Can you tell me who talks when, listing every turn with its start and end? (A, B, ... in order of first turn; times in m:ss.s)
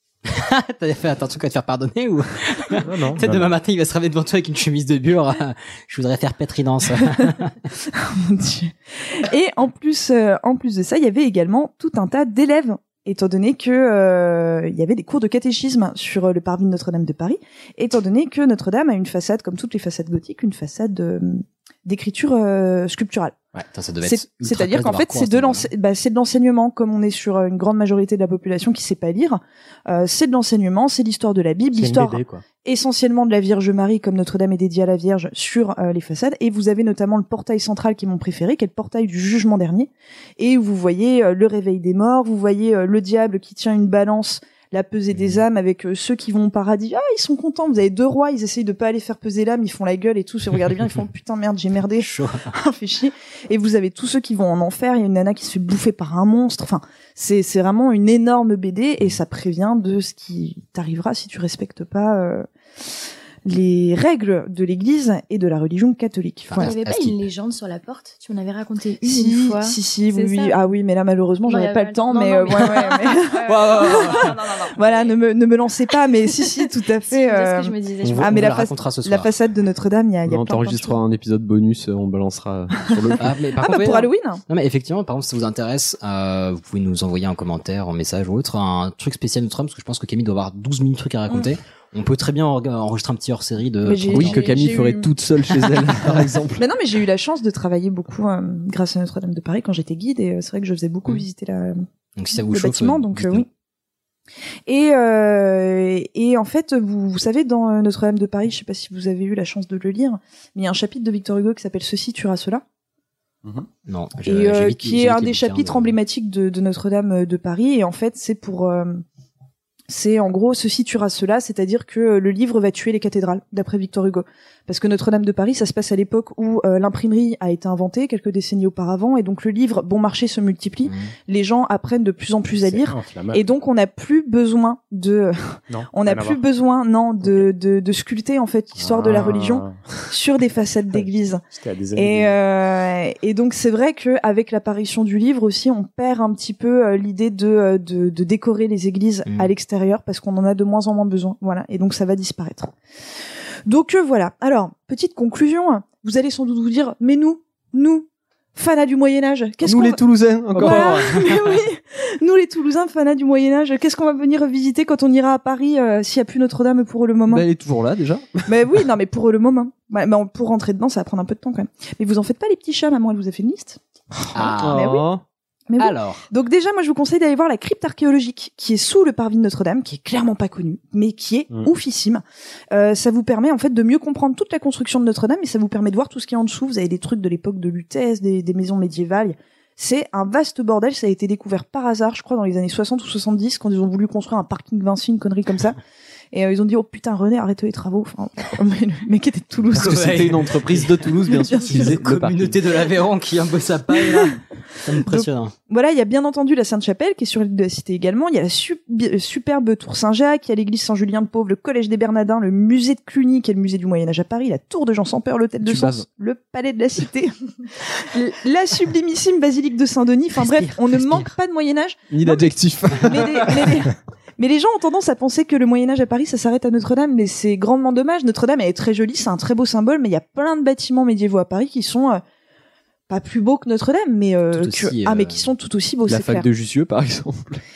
0:00.2-0:07.6 A
0:02.8-0:03.5 B
0:07.9-0:23.4 C
0:23.5-0:25.7 A
0:24.0-1:02.5 C
0:31.7-0:32.4 B
0:52.0-0:52.5 A
1:03.4-1:06.7 C
1:06.5-1:07.2 A
1:06.6-1:10.6 D
1:09.0-1:21.0 C
1:11.4-1:15.1 D
1:13.4-1:14.4 A
1:17.1-1:18.5 D
1:18.0-1:19.3 A
1:20.3-1:23.3 E
1:22.9-1:24.4 C
1:23.2-1:34.7 A
1:33.8-1:35.1 C
1:34.1-1:36.6 E
1:36.6-1:41.8 C
1:42.2-1:43.5 A
1:42.5-1:43.5 C
1:44.7-1:52.6 C
1:53.8-1:55.9 A
1:54.2-1:59.0 C
1:59.9-2:21.4 C
2:10.8-2:11.1 A
2:12.6-2:13.5 B
2:15.7-2:16.4 B
2:18.8-2:19.8 B
2:20.9-2:22.4 B
2:21.9-2:32.7 C
2:29.2-2:29.5 A
2:33.7-2:47.4 C
2:39.6-2:41.4 E
2:40.6-2:41.0 A
2:47.3-2:48.5 E
2:48.5-2:53.8 C
2:54.3-2:54.9 A
2:54.4-2:55.1 C
2:54.4-2:55.2 E
2:55.7-3:15.8 C
2:55.8-2:56.2 A
3:16.3-3:20.3 C
3:19.8-3:25.5 A
3:19.8-3:22.6 E
3:21.3-3:21.9 C
3:25.0-3:37.3 C
3:35.6-3:36.0 E
3:37.8-3:52.2 C
3:40.4-3:41.2 A
3:42.1-3:43.8 E
3:53.1-3:56.5 C
3:54.5-3:55.5 A
3:56.1-3:57.6 E